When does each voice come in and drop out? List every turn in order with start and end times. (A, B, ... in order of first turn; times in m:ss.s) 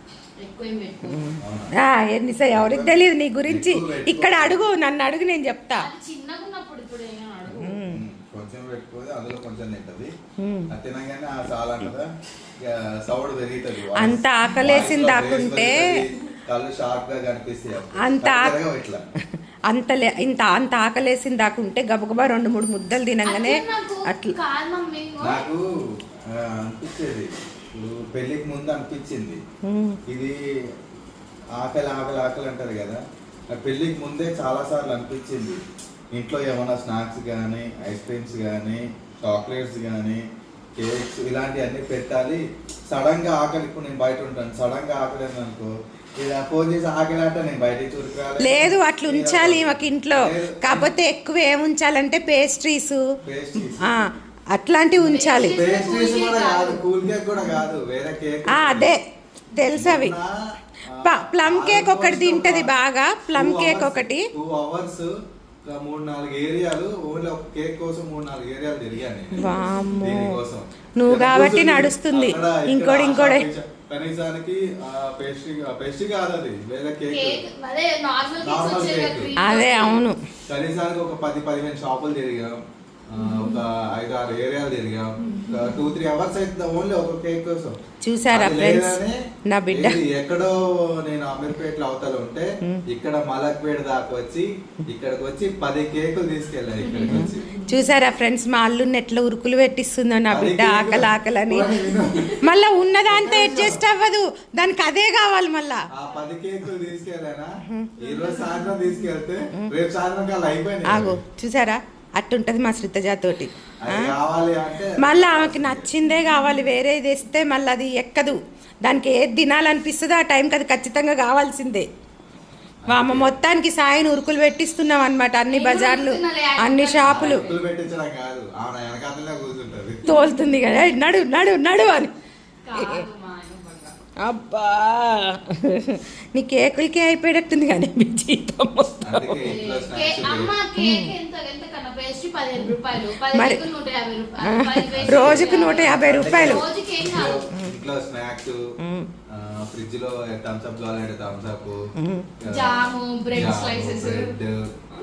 0:00.4-0:01.2 A
0:01.1-0:05.9 B
0:01.4-0:01.7 C
0:02.5-0:04.6 C
0:05.8-0:07.8 A
0:07.6-0:08.0 B
0:07.8-0:10.1 C
0:10.4-0:10.7 B
0:10.7-0:12.1 C
0:12.6-0:19.0 C
0:13.9-0:16.0 B
0:18.0-0:18.6 B
0:19.7-0:24.4 B
0:23.2-0:25.4 A
0:25.2-0:25.6 C
0:26.2-0:29.4 C
0:29.6-0:30.0 B
0:30.1-0:30.4 C
0:31.6-0:35.6 C
0:36.1-0:40.2 C
0:40.8-0:51.0 C
0:48.4-0:53.0 B
0:53.2-0:53.9 C
0:53.8-0:55.6 B
0:55.0-0:56.8 A
0:55.5-0:58.9 C
0:58.5-0:59.0 B
0:59.6-1:00.1 B
0:59.7-1:02.7 C
1:01.0-1:04.3 B
1:03.3-1:05.1 C
1:05.6-1:09.4 C
1:09.4-1:10.4 B
1:10.0-1:17.4 C
1:11.0-1:13.5 B
1:17.1-1:20.0 A
1:18.4-1:19.3 C
1:19.4-1:20.2 B
1:20.5-1:27.8 C
1:23.2-1:23.6 A
1:25.2-1:25.9 A
1:28.0-1:29.0 B
1:28.3-1:37.5 C
1:29.5-1:30.0 B
1:36.8-1:37.8 A
1:37.1-1:41.9 B
1:40.3-1:42.4 C
1:41.9-1:42.3 A
1:42.4-1:45.8 B
1:43.0-1:43.8 C
1:45.9-1:51.2 C
1:47.7-1:47.9 B
1:48.0-1:48.9 A
1:50.9-1:54.1 B
1:53.8-1:56.0 C
1:55.0-2:01.9 B
2:02.8-2:03.4 C
2:02.9-2:07.4 B
2:05.5-2:07.6 A
2:07.0-2:10.0 C
2:10.1-2:10.5 A
2:10.1-2:12.1 B
2:12.6-2:13.9 A
2:12.7-2:13.0 B
2:14.2-2:19.4 B
2:19.0-2:20.5 C
2:19.4-2:27.5 A
2:20.8-2:21.1 B
2:23.3-2:23.6 B
2:24.5-2:26.6 B
2:25.0-2:28.6 C
2:28.8-2:29.1 B
2:29.3-2:31.9 C
2:32.0-2:32.3 B
2:32.4-2:34.7 C
2:32.5-2:34.3 A